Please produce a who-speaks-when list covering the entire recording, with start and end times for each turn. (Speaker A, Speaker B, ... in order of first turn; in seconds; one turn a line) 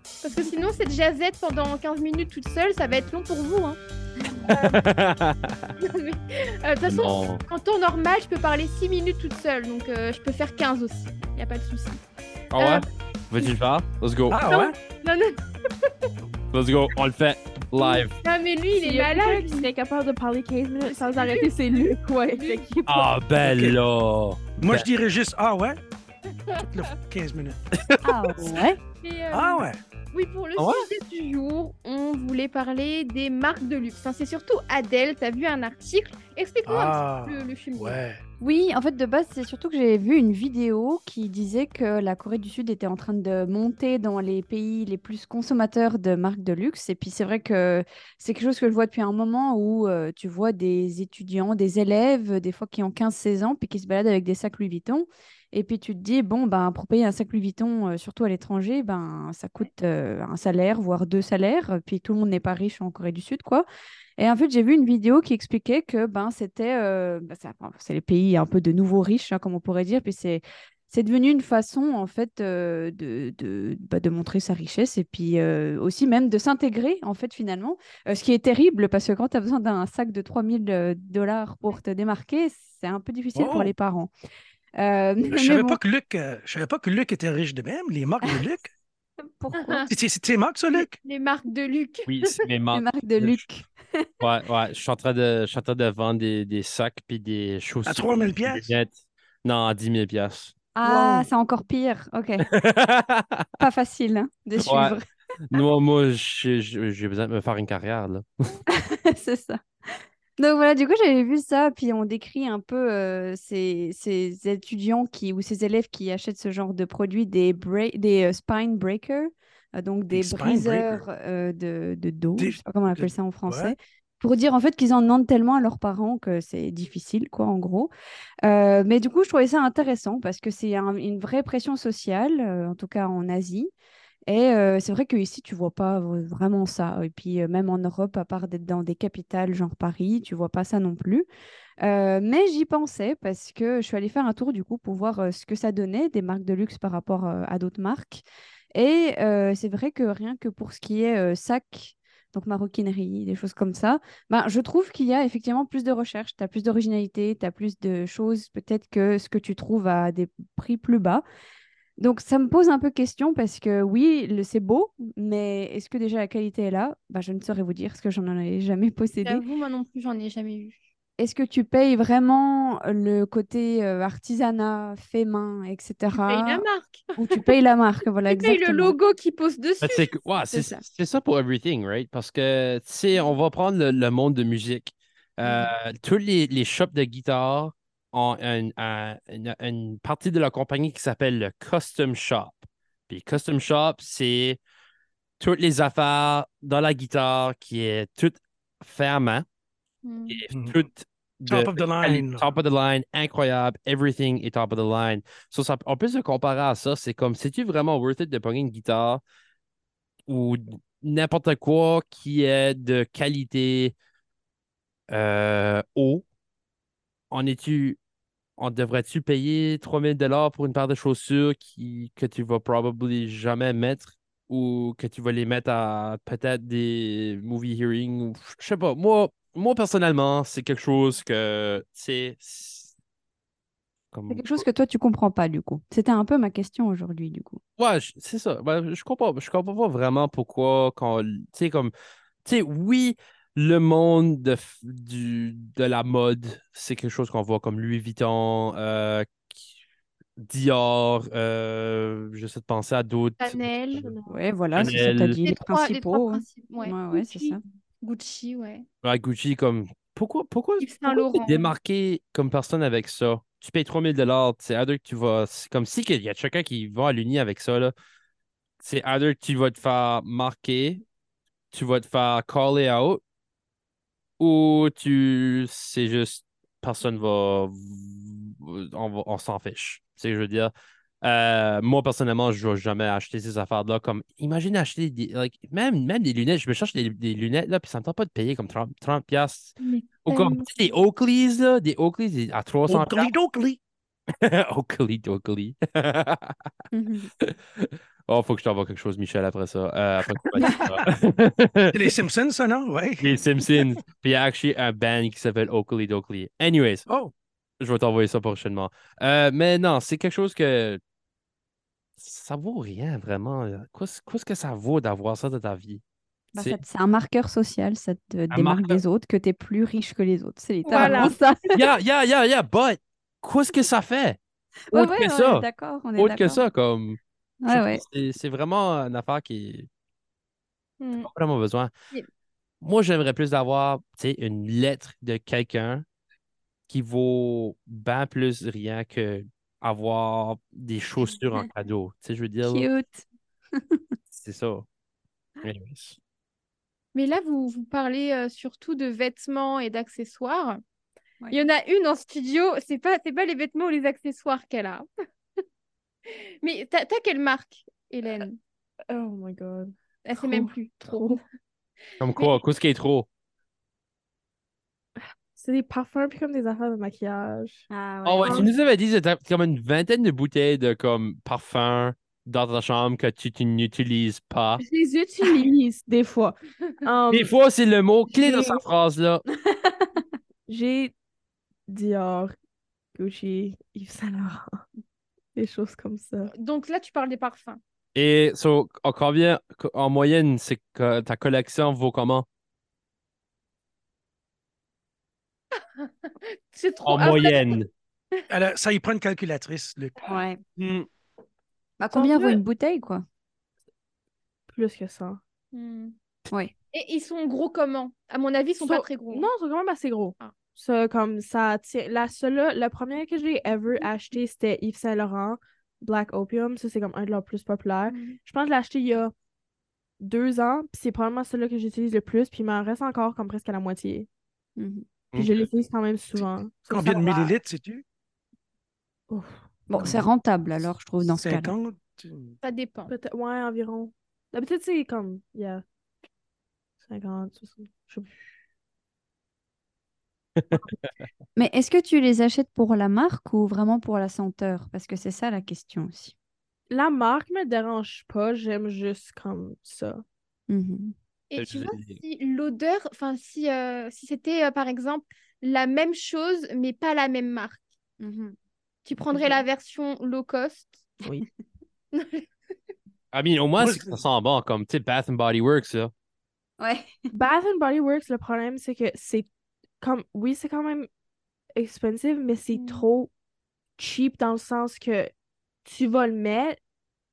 Speaker A: 0.2-3.8
Speaker A: 4.4-4.7
Speaker B: 4.5-5.7
Speaker A: 5.8-12.0
Speaker B: 6.8-7.4
Speaker B: 12.5-14.4
Speaker A: 12.6-12.8
Speaker C: 14.3-14.7
Speaker A: 14.4-16.1
Speaker B: 16.5-18.1
Speaker A: 17.8-19.7
Speaker D: 18.8-23.1
Speaker A: 20.8-22.7
Speaker B: 22.9-24.9
Speaker C: 23.4-23.8
Speaker C: 24.6-25.8
Speaker A: 26.5-26.8
Speaker C: 26.6-27.6
Speaker B: 27.8-28.4
Speaker E: 28.0-28.8
Speaker A: 29.0-38.0
Speaker C: 29.3-29.8
Speaker B: 30.6-30.9
Speaker C: 36.6-38.2
Speaker E: 38.4-63.6
Speaker E: 64.2-84.1
Speaker C: 83.3-83.7
Speaker E: 84.8-85.8
Speaker C: 85.2-88.7
Speaker E: 89.2-89.8
Speaker A: 89.5-89.9
Speaker C: 89.8-91.0
Speaker A: 90.7-92.3
Speaker B: 92.1-93.4
Speaker E: 92.7-94.1
Speaker B: 94.2-100.5
Speaker C: 97.8-98.7
Speaker E: 100.8-102.5
Speaker C: 100.8-101.3
Speaker B: 102.4-103.5
Speaker E: 103.6-105.6
Speaker B: 104.6-105.0
Speaker B: 105.5-108.6
Speaker E: 108.7-127.9
Speaker C: 120.1-121.0
Speaker C: 122.4-123.7
Speaker E: 128.4-133.7
Speaker E: 134.3-141.2
Speaker E: 141.8-161.2
Speaker E: 162.0-169.4
Speaker A: 169.2-170.8
Speaker E: 171.2-176.6
Speaker A: 176.1-177.4
Speaker E: 177.2-178.9
Speaker A: 178.3-180.1
Speaker B: 179.8-194.6
Speaker E: 180.5-180.8
Speaker E: 185.4-185.7
Speaker B: 195.4-199.4
Speaker A: 200.0-200.4
Speaker B: 200.3-209.2
Speaker C: 200.5-200.8
Speaker C: 201.5-202.5
Speaker B: 210.3-213.9
Speaker B: 215.1-216.2
Speaker B: 217.3-218.0
Speaker B: 218.6-232.9
Speaker B: 234.1-234.7
Speaker E: 234.3-237.6
Speaker B: 237.8-241.9
Speaker B: 242.4-249.6
Speaker B: 250.4-254.1
Speaker A: 253.4-254.0
Speaker D: 253.9-254.4
Speaker E: 254.2-257.6
Speaker B: 254.7-255.4
Speaker A: 255.4-258.9
Speaker B: 259.0-267.9
Speaker A: 260.8-261.7
Speaker B: 268.8-271.0
Speaker B: 271.7-273.2
Speaker B: 274.4-293.3
Speaker A: 289.8-290.7
Speaker C: 292.9-293.8
Speaker B: 294.3-296.7
Speaker E: 296.9-297.3
Speaker B: 297.4-302.1
Speaker C: 300.6-301.1
Speaker C: 301.9-303.3
Speaker B: 303.2-307.1
Speaker C: 307.1-307.3
Speaker B: 307.8-311.0
Speaker B: 312.2-316.0
Speaker E: 316.5-321.9
Speaker B: 316.5-316.8
Speaker B: 318.5-319.0
Speaker A: 320.8-321.3
Speaker B: 320.9-324.4
Speaker E: 324.9-326.6
Speaker B: 324.9-329.9
Speaker E: 327.6-328.0
Speaker A: 331.0-331.3
Speaker B: 331.2-331.9
Speaker B: 332.8-336.0
Speaker B: 336.9-342.9
Speaker E: 342.6-343.2
Speaker B: 344.3-344.8
Speaker B: 345.6-346.2
Speaker A: 347.1-350.8
Speaker A: 351.5-355.1
Speaker A: 356.3-358.6
Speaker D: 359.1-361.4
Speaker A: 360.2-361.4
Speaker B: 362.2-363.3
Speaker D: 365.6-367.9
Speaker E: 367.9-368.7
Speaker B: 368.2-374.8
Speaker D: 368.4-368.7
Speaker D: 374.8-377.5
Speaker B: 377.3-379.4
Speaker D: 378.3-378.8
Speaker E: 379.6-380.2
Speaker D: 380.7-381.1
Speaker D: 381.9-382.5
Speaker D: 383.2-384.8
Speaker D: 385.6-386.5
Speaker A: 386.5-387.8
Speaker B: 388.1-392.4
Speaker A: 396.0-397.8
Speaker B: 397.0-397.9
Speaker C: 398.5-400.1
Speaker E: 400.2-400.6
Speaker B: 400.8-401.1
Speaker E: 402.0-403.2
Speaker D: 402.1-402.6
Speaker D: 404.7-405.4
Speaker A: 405.7-406.1
Speaker A: 406.9-409.5
Speaker D: 408.8-419.3
Speaker A: 418.1-418.4
Speaker D: 420.2-424.3
Speaker E: 424.8-425.0
Speaker B: 425.3-425.6
Speaker D: 425.3-427.6
Speaker C: 426.9-428.0
Speaker D: 429.3-430.1
Speaker E: 429.9-431.7
Speaker C: 431.2-432.5
Speaker A: 432.6-433.1
Speaker D: 433.1-435.8
Speaker D: 437.0-438.4
Speaker E: 441.6-446.3
Speaker D: 446.9-450.2
Speaker E: 450.7-451.1
Speaker A: 451.5-457.8
Speaker B: 451.6-452.2
Speaker E: 458.2-458.5
Speaker A: 459.0-461.1
Speaker D: 459.3-459.6
Speaker A: 462.1-462.4
Speaker B: 463.3-466.1
Speaker C: 463.8-464.2
Speaker E: 466.8-467.1
Speaker D: 467.3-469.4
Speaker D: 470.0-471.1
Speaker D: 471.8-473.3
Speaker A: 472.7-473.1
Speaker D: 474.0-475.3
Speaker D: 475.8-476.8